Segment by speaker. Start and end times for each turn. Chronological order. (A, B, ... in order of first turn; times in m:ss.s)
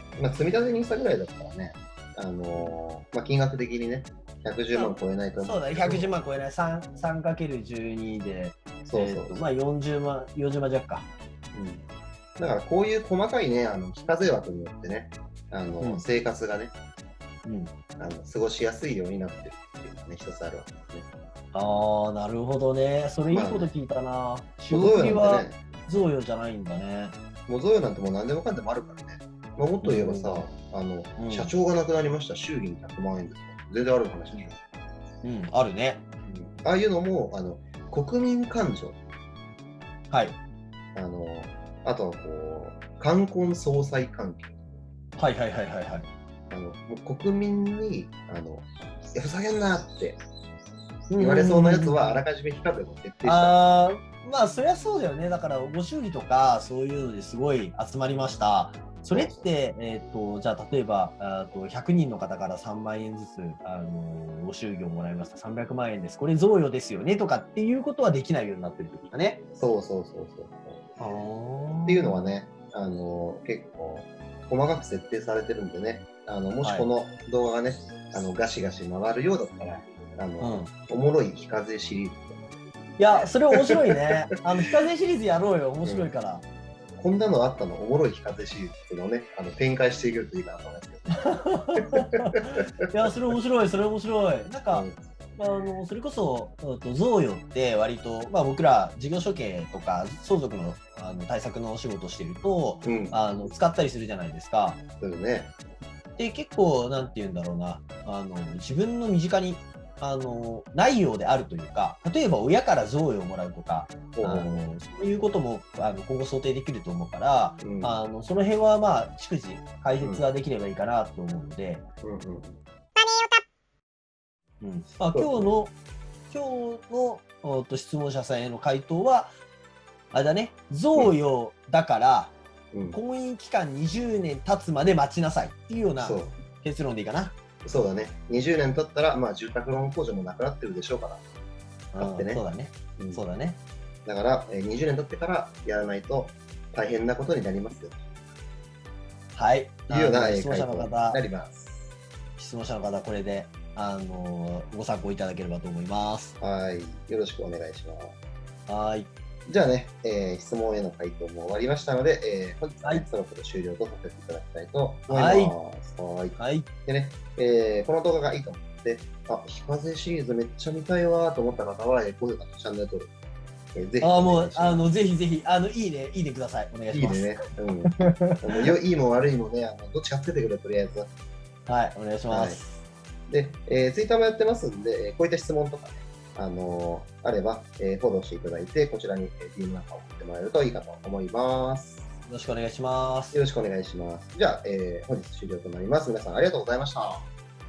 0:00.2-0:06.1 A
0:04.7-0:11.1 B
0:08.8-0:09.4 A
0:11.5-0:11.8 A
0:12.4-0:16.7 A
0:17.4-0:17.7 B
0:18.0-0:21.1 A
0:21.5-0:27.1 B
0:23.3-0:23.7 A
0:24.7-0:25.6 A
0:27.5-0:34.6 A
0:29.8-0:30.5 B
0:31.2-0:31.5 B
0:35.2-0:36.0 B
0:36.3-0:39.0 A
0:40.1-0:40.4 B
0:40.9-0:44.6 A
0:45.2-0:46.1 B
0:46.5-0:50.2 A
0:51.1-0:52.2 B
0:51.2-0:53.6 A
0:53.2-1:09.4 B
0:59.1-0:59.5 A
1:09.6-1:10.8 A
1:11.0-1:12.3 B
1:11.9-1:22.4 A
1:20.4-1:20.7 B
1:23.0-1:26.4 B
1:25.8-1:26.1 A
1:27.0-1:31.9 A
1:31.2-1:34.8 B
1:34.7-1:35.0 A
1:35.4-1:44.8 B
1:42.8-1:43.2 A
1:45.0-1:45.5 A
1:46.2-2:01.8 B
1:54.1-1:54.6 A
1:57.6-1:58.0 A
2:02.0-2:02.6 A
2:04.6-2:05.8 B
2:05.1-2:05.5 A
2:06.3-2:09.3 B
2:10.1-2:12.4 B
2:12.7-2:13.0 A
2:12.9-2:17.3 B
2:16.0-2:16.4 A
2:17.6-2:21.2 A
2:21.9-2:23.6 B
2:22.0-2:22.4 A
2:23.0-2:23.2 A
2:24.0-2:28.0 A
2:29.3-2:31.2 B
2:29.9-2:31.9 A
2:32.4-2:36.3 B
2:36.4-2:38.2 A
2:38.7-2:39.1 B
2:39.5-2:53.1 A
2:45.1-2:45.5 B
2:46.4-2:46.7 B
2:53.7-2:54.8 A
2:54.0-2:57.4 B
2:56.9-3:01.1 A
2:58.0-2:58.7 B
3:01.7-3:02.8 B
3:02.3-3:02.6 A
3:03.3-3:12.1 A
3:12.3-3:13.4 B
3:13.3-3:17.3 A